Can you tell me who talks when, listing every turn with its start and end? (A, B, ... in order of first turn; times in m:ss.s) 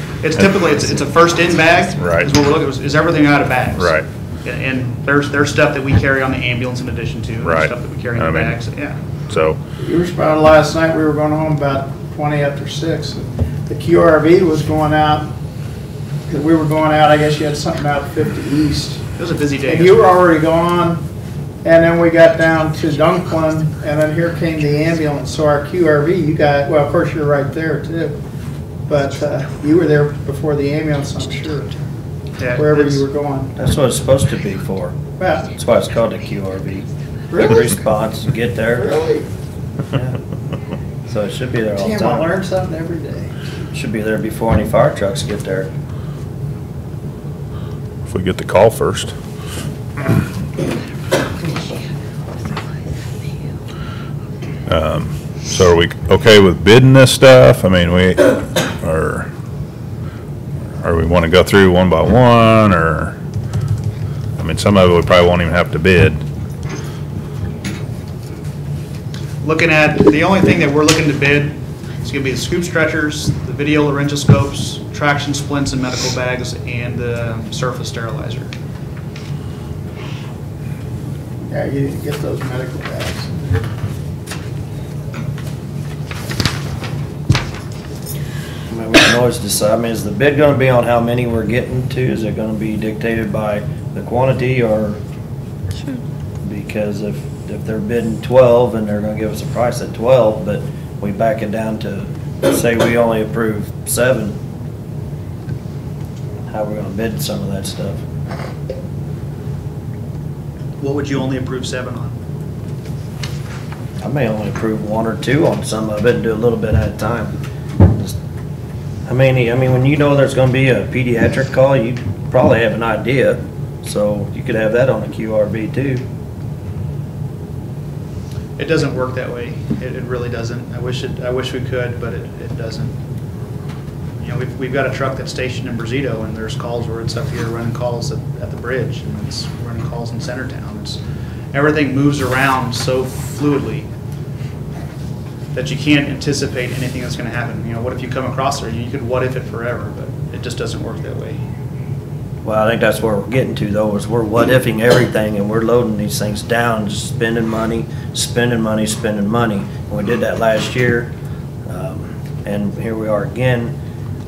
0:00.2-0:09.0 A
0:00.4-0:00.6 B
0:02.0-0:02.3 B
0:03.8-0:04.0 B
0:07.4-0:08.6 B
0:09.3-0:09.6 B
0:09.8-0:15.3 C
0:16.3-0:19.0 C
0:19.2-0:20.0 A
0:19.7-0:21.0 C
0:21.6-0:28.2 C
0:28.9-0:31.8 C
0:32.4-0:33.0 A
0:32.5-0:33.6 C
0:33.6-0:35.0 D
0:35.2-0:35.5 C
0:35.5-0:38.9 D
0:37.3-0:37.7 C
0:38.8-0:39.3 C
0:41.0-0:42.3 D
0:41.7-0:43.6 C
0:43.7-0:45.7 D
0:48.0-0:49.1 B
0:54.7-0:59.3 B
1:00.8-1:03.2 B
1:04.4-1:06.2 B
1:09.4-1:18.5 A
1:21.5-1:23.6 C
1:28.7-1:35.0 D
1:36.4-1:44.4 D
1:46.5-1:48.0 D
1:50.8-1:52.2 A
1:54.0-1:58.2 D
1:59.0-2:06.0 D
2:08.6-2:12.9 A
2:14.2-2:21.0 A
2:21.5-2:23.9 A
2:25.5-2:31.4 A
2:32.4-2:41.1 D
2:41.7-2:43.8 D